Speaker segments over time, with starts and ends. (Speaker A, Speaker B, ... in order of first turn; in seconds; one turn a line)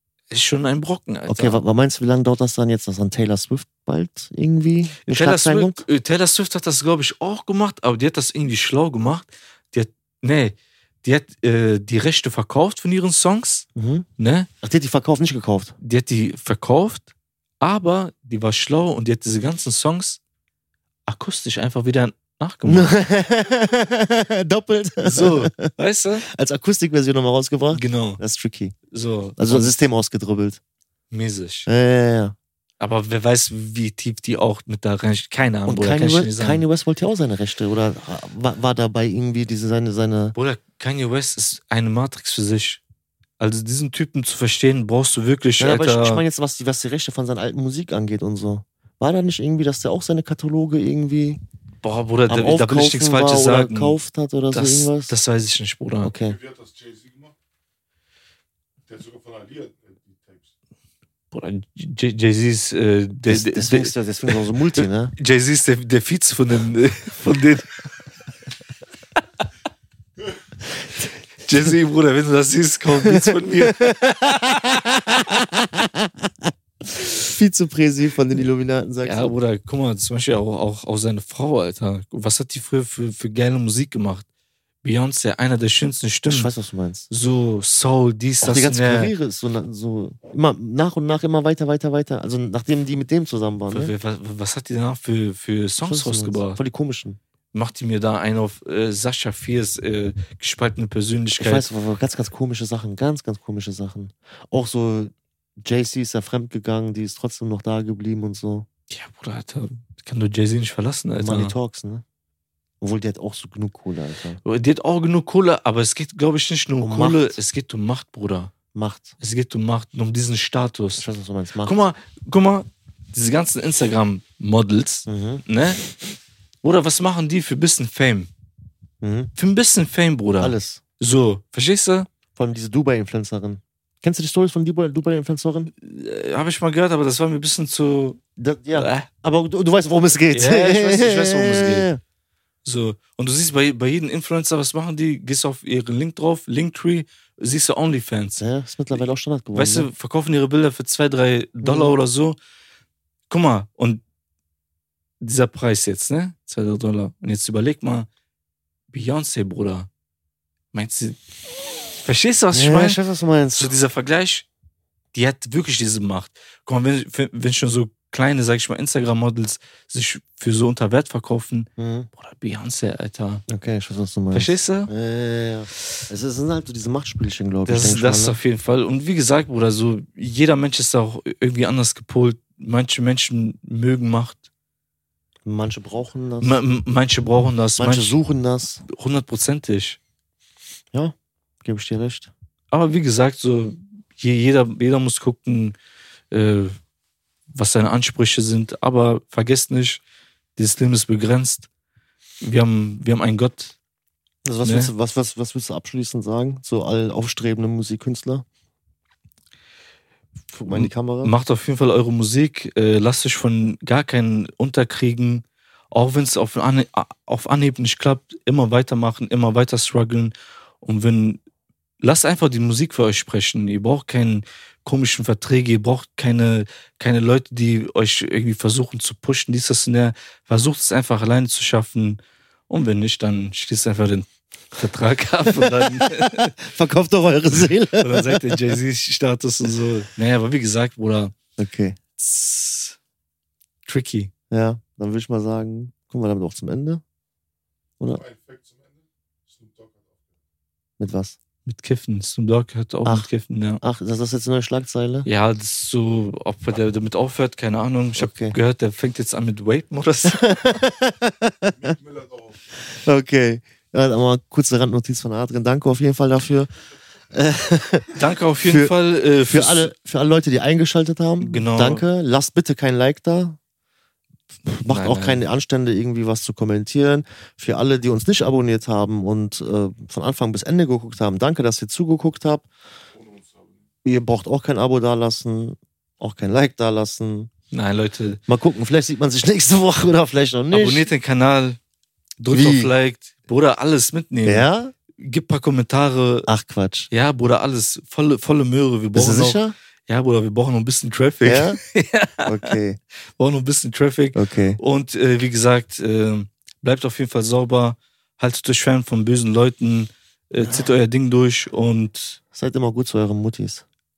Speaker A: 0.3-1.6
Speaker B: 1.3-5.8
Speaker A: 5.0-13.7
Speaker B: 13.8-14.1
Speaker A: 14.2-14.5
Speaker B: 14.6-15.8
Speaker A: 15.8-17.1
Speaker A: 17.6-20.2
Speaker A: 21.1-23.0
Speaker B: 22.7-25.7
Speaker A: 25.0-26.3
Speaker B: 26.3-28.8
Speaker A: 27.7-28.2
Speaker A: 28.9-29.7
Speaker B: 29.4-30.6
Speaker A: 31.1-31.7
Speaker B: 31.7-32.4
Speaker A: 32.8-36.6
Speaker B: 35.7-40.4
Speaker A: 40.4-42.8
Speaker A: 43.4-46.2
Speaker B: 45.6-51.4
Speaker A: 51.8-54.0
Speaker B: 52.3-55.2
Speaker A: 54.5-56.1
Speaker B: 56.0-56.4
Speaker C: 56.2-57.4
Speaker C: 58.9-60.5
Speaker A: 61.3-67.8
Speaker B: 63.3-65.1
Speaker A: 71.4-74.6
Speaker B: 73.0-79.3
Speaker A: 79.0-84.3
Speaker A: 84.8-86.5
Speaker B: 86.3-87.1
Speaker A: 87.1-89.1
Speaker B: 88.4-93.9
Speaker A: 93.7-96.6
Speaker B: 95.8-97.2
Speaker A: 97.5-101.7
Speaker B: 101.4-108.7
Speaker A: 108.9-111.5
Speaker B: 111.2-112.0
Speaker B: 112.8-114.4
Speaker A: 114.4-118.5
Speaker B: 116.8-117.4
Speaker B: 118.7-119.1
Speaker A: 119.2-121.0
Speaker B: 121.0-121.8
Speaker A: 121.6-125.8
Speaker B: 125.1-125.4
Speaker A: 126.6-128.3
Speaker B: 129.0-129.3
Speaker A: 129.4-132.1
Speaker B: 130.4-130.8
Speaker B: 132.3-135.7
Speaker A: 135.7-138.2
Speaker B: 138.4-142.0
Speaker A: 138.7-139.1
Speaker A: 140.3-141.9
Speaker A: 142.7-148.4
Speaker B: 148.4-149.9
Speaker A: 149.5-152.4
Speaker B: 151.6-152.0
Speaker A: 153.3-154.0
Speaker A: 155.2-158.1
Speaker A: 158.9-159.9
Speaker A: 160.7-161.2
Speaker A: 162.0-163.0
Speaker B: 162.5-163.7
Speaker A: 163.6-164.5
Speaker A: 165.1-173.4
Speaker B: 171.8-172.1
Speaker B: 173.5-178.4
Speaker A: 174.3-174.9
Speaker A: 177.7-184.4
Speaker B: 185.4-186.6
Speaker A: 186.4-188.2
Speaker B: 187.8-188.8
Speaker A: 188.9-190.0
Speaker B: 190.9-192.3
Speaker A: 192.7-195.8
Speaker A: 196.3-196.8
Speaker A: 197.5-200.0
Speaker A: 200.6-201.7
Speaker A: 202.4-203.8
Speaker B: 204.4-208.4
Speaker A: 204.6-204.9
Speaker A: 210.5-221.4
Speaker B: 210.7-211.3
Speaker A: 222.0-236.5
Speaker B: 235.5-238.6
Speaker A: 238.0-241.3
Speaker B: 241.6-242.0
Speaker A: 242.2-243.0
Speaker A: 243.9-244.3
Speaker B: 244.5-247.0
Speaker C: 248.1-250.3
Speaker B: 251.0-251.4
Speaker A: 251.7-253.8
Speaker B: 253.8-255.3
Speaker A: 255.2-260.4
Speaker B: 258.2-258.6
Speaker B: 260.2-261.9
Speaker C: 261.7-262.8
Speaker B: 262.8-266.7
Speaker B: 267.3-273.6
Speaker A: 268.1-269.9
Speaker A: 271.4-272.0
Speaker B: 274.7-282.7
Speaker A: 274.8-275.4
Speaker C: 283.2-283.8
Speaker B: 284.0-287.5
Speaker A: 287.7-288.4
Speaker B: 288.5-291.1
Speaker A: 290.7-291.8
Speaker A: 292.4-294.7
Speaker B: 292.5-292.9
Speaker B: 294.4-294.9
Speaker A: 295.2-296.5
Speaker B: 296.5-297.1
Speaker A: 297.1-302.7
Speaker B: 299.1-299.8
Speaker B: 301.4-301.8
Speaker B: 302.4-303.0
Speaker A: 303.4-312.4
Speaker B: 304.4-304.8
Speaker B: 310.6-310.9
Speaker B: 312.5-313.9